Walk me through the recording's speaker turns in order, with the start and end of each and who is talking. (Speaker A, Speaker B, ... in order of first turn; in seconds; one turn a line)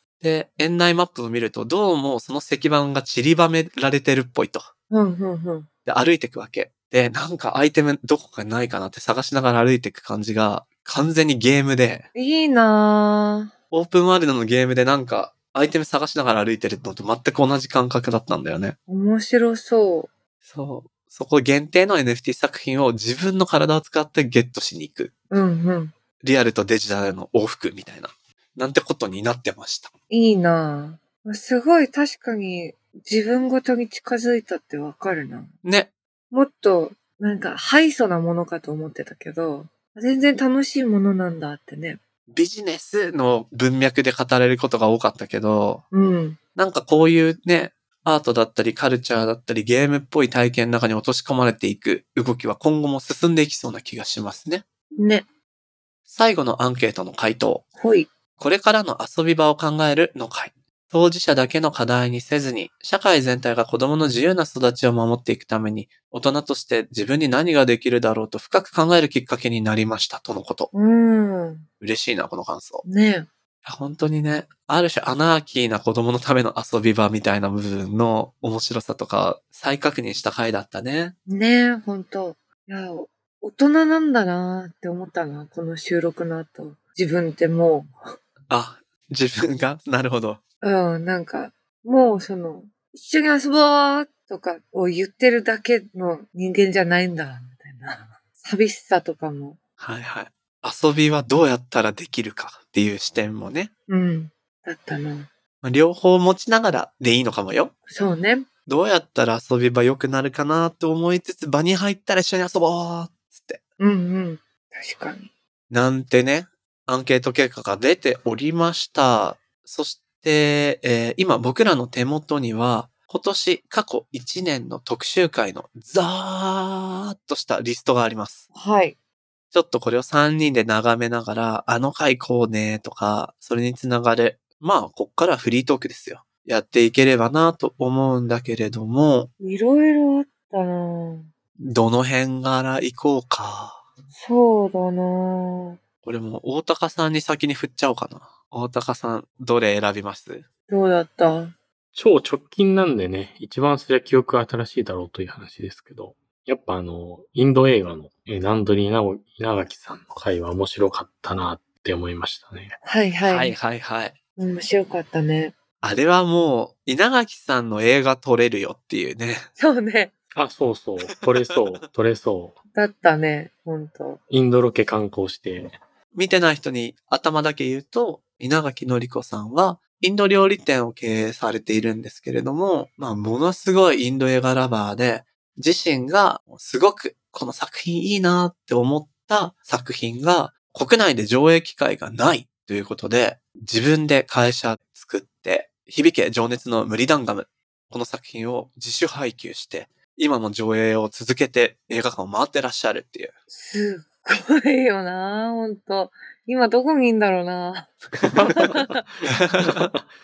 Speaker A: 0.2-4.7
Speaker B: 4.9-5.7
Speaker A: 5.9-12.1
Speaker B: 12.2-13.5
Speaker A: 13.7-18.8
Speaker B: 18.9-20.1
Speaker A: 20.5-25.1
Speaker B: 25.3-25.9
Speaker A: 26.2-29.9
Speaker B: 30.1-35.5
Speaker A: 35.6-35.9
Speaker B: 36.3-42.0
Speaker A: 42.3-45.8
Speaker B: 45.9-46.4
Speaker A: 46.6-54.6
Speaker B: 55.0-55.2
Speaker A: 56.1-57.6
Speaker B: 57.8-58.1
Speaker A: 58.4-70.7
Speaker B: 70.7-71.7
Speaker A: 71.8-72.8
Speaker B: 72.8-73.3
Speaker A: 73.7-81.2
Speaker B: 81.3-87.9
Speaker A: 88.5-90.4
Speaker B: 90.6-99.6
Speaker A: 99.8-103.7
Speaker B: 103.9-105.3
Speaker A: 105.6-107.7
Speaker B: 107.9-108.5
Speaker A: 108.7-113.6
Speaker B: 113.8-115.3
Speaker A: 115.7-128.5
Speaker B: 128.5-129.0
Speaker A: 129.5-139.3
Speaker B: 139.4-141.3
Speaker A: 141.6-143.8
Speaker B: 144.1-145.8
Speaker A: 146.0-150.4
Speaker B: 150.7-151.6
Speaker C: 151.9-162.8
Speaker B: 162.8-163.5
Speaker A: 163.2-164.2
Speaker B: 164.4-165.6
Speaker A: 165.8-169.5
Speaker B: 169.6-170.1
Speaker C: 170.3-172.6
Speaker B: 172.8-174.2
Speaker C: 174.3-175.7
Speaker A: 176.1-203.3
Speaker B: 203.5-209.0
Speaker A: 208.2-208.5
Speaker C: 208.3-210.1
Speaker A: 209.3-209.9